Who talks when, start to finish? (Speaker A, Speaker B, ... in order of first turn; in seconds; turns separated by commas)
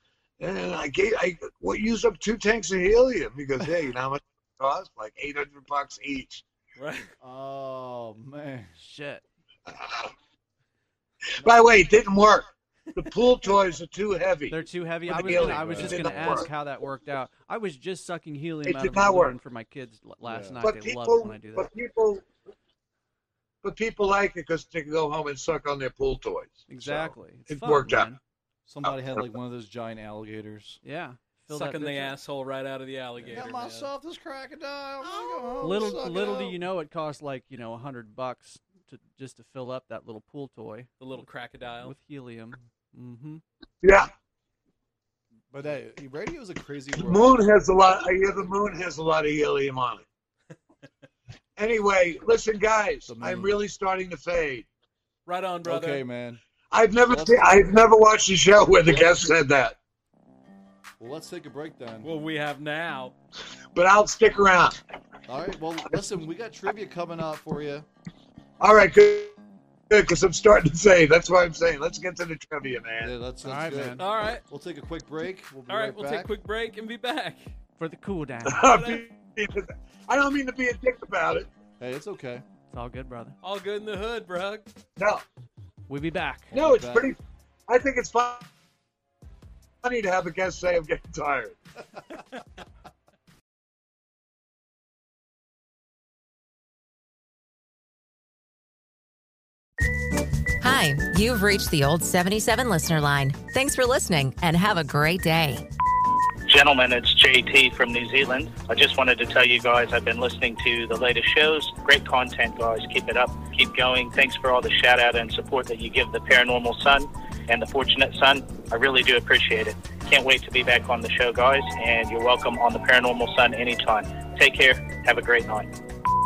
Speaker A: 0.4-6.4, Speaker B: 6.8-7.1, Speaker C: 7.2-8.7, Speaker D: 8.8-9.2, Speaker A: 9.7-10.1, Speaker A: 11.4-16.5, Speaker D: 14.5-21.7, Speaker C: 15.1-16.5, Speaker A: 18.6-19.4, Speaker C: 20.2-20.6, Speaker A: 20.6-22.3, Speaker A: 23.6-28.1, Speaker D: 26.7-28.2, Speaker C: 28.7-30.8, Speaker A: 28.9-29.2, Speaker D: 30.8-32.2, Speaker B: 31.5-33.9, Speaker C: 33.2-36.6, Speaker D: 35.6-41.2, Speaker B: 41.0-42.0, Speaker D: 41.8-43.4, Speaker A: 43.8-44.1, Speaker C: 45.5-47.5, Speaker A: 47.0-50.0, Speaker A: 51.6-54.7, Speaker C: 53.1-53.6, Speaker B: 55.3-56.0, Speaker C: 55.6-56.4, Speaker A: 56.7-59.8, Speaker C: 57.0-57.8, Speaker C: 61.0-62.1, Speaker B: 62.0-63.1, Speaker A: 63.8-64.8, Speaker C: 65.3-67.9, Speaker A: 68.6-69.4, Speaker A: 69.9-73.1, Speaker C: 73.0-76.3, Speaker D: 73.4-74.0, Speaker B: 74.0-74.4, Speaker B: 75.7-77.5, Speaker D: 77.8-79.0, Speaker A: 78.5-81.5, Speaker C: 81.8-82.4, Speaker D: 82.7-83.4, Speaker B: 83.4-84.7, Speaker A: 85.0-85.2, Speaker D: 85.9-86.5, Speaker C: 86.5-87.1, Speaker A: 86.5-88.5, Speaker A: 89.8-91.6, Speaker E: 100.6-105.7, Speaker F: 106.5-125.7